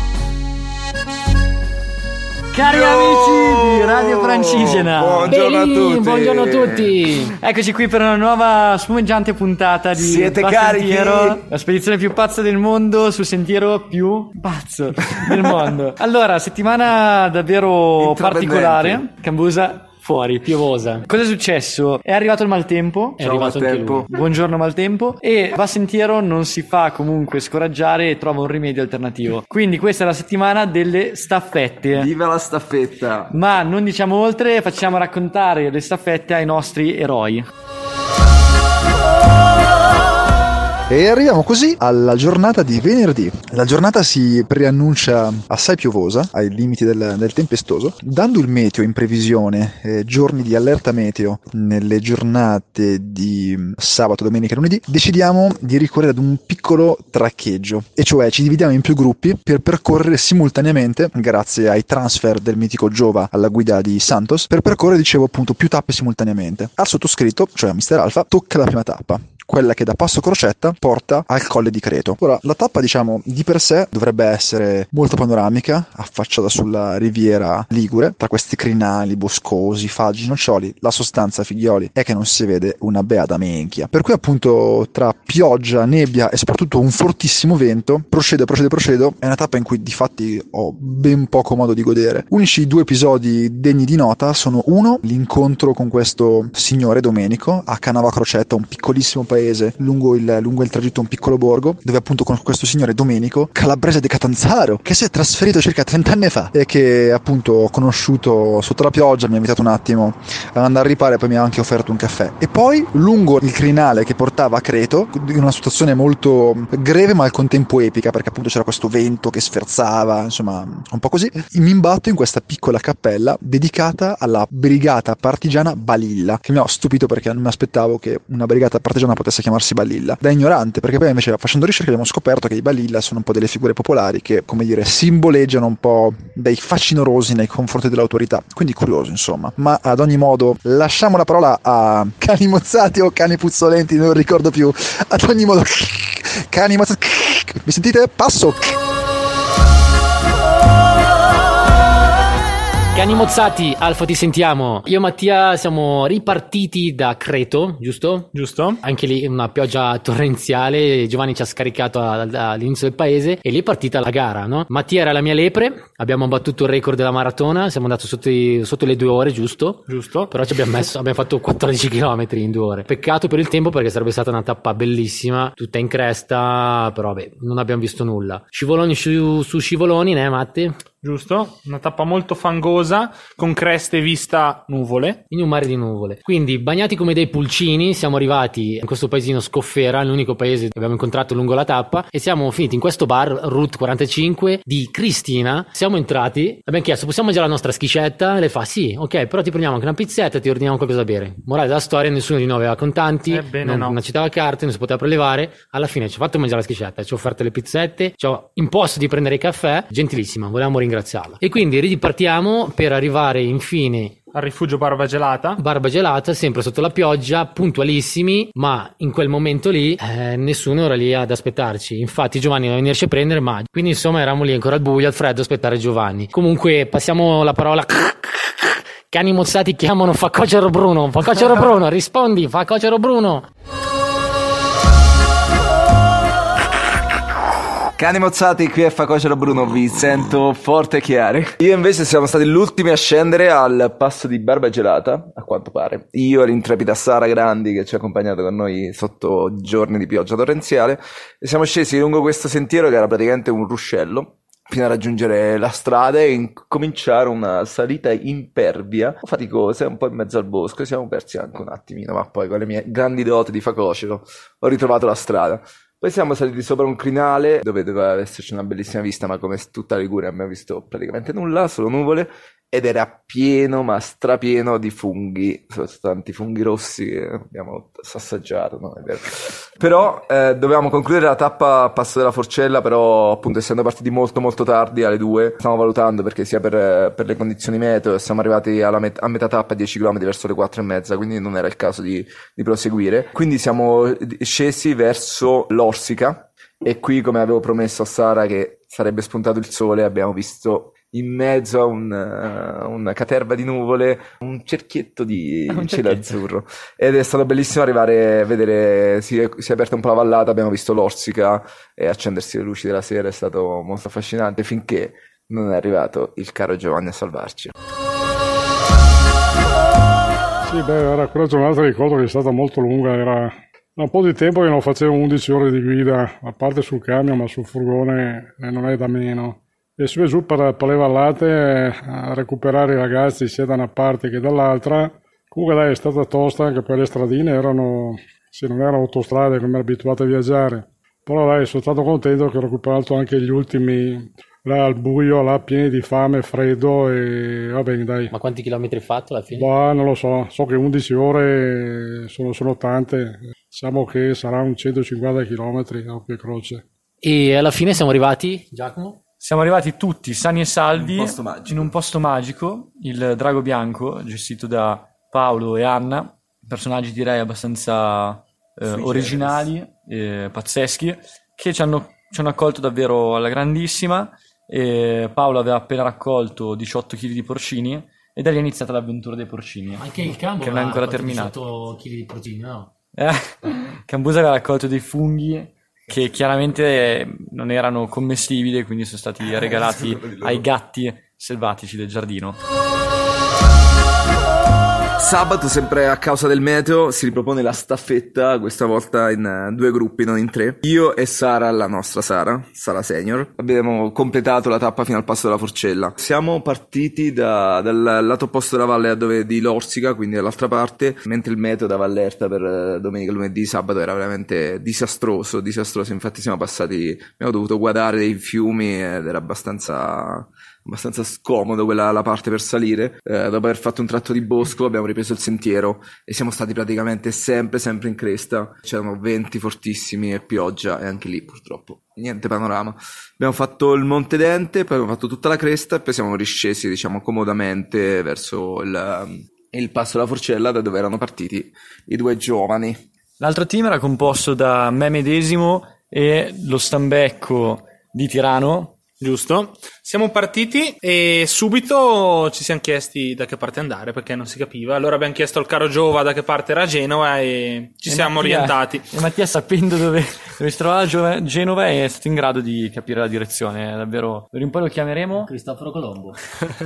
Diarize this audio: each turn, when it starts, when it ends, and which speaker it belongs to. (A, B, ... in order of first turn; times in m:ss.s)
0:02.5-0:20.5 A
0:02.6-0:07.0 B
0:05.3-0:07.3 C
0:09.9-0:11.4 B
0:18.0-0:19.0 B
0:20.4-0:21.0 C
0:21.0-0:23.2 A
0:23.2-0:24.0 C
0:23.2-0:24.1 B
0:24.0-0:32.1 A
0:31.9-0:33.3 B
0:33.3-0:37.5 A
0:40.9-2:28.8 D
2:32.9-2:38.3 C
2:38.3-2:38.8 E
2:38.8-3:00.8 C
2:49.9-2:50.3 E
3:01.0-3:05.2 E
3:05.3-3:34.2 C
3:23.3-3:24.0 E
3:34.3-3:35.6 E
3:35.6-3:53.5 C
3:58.0-4:39.2 B
4:39.8-5:17.7 B
5:05.7-5:06.2 A
5:20.7-5:48.3 F
5:48.3-5:49.7 C
5:49.5-5:56.8 F
5:57.2-5:59.2 C
5:59.4-6:21.5 A
6:00.9-6:01.9 B
6:08.9-6:09.7 B
6:20.0-6:22.9 C
6:23.1-6:32.6 A
6:29.4-6:30.6 B
6:35.2-7:23.0 B
7:23.4-7:29.0 A
7:29.2-7:39.1 E
7:38.0-7:45.5 A
7:45.5-7:46.3 C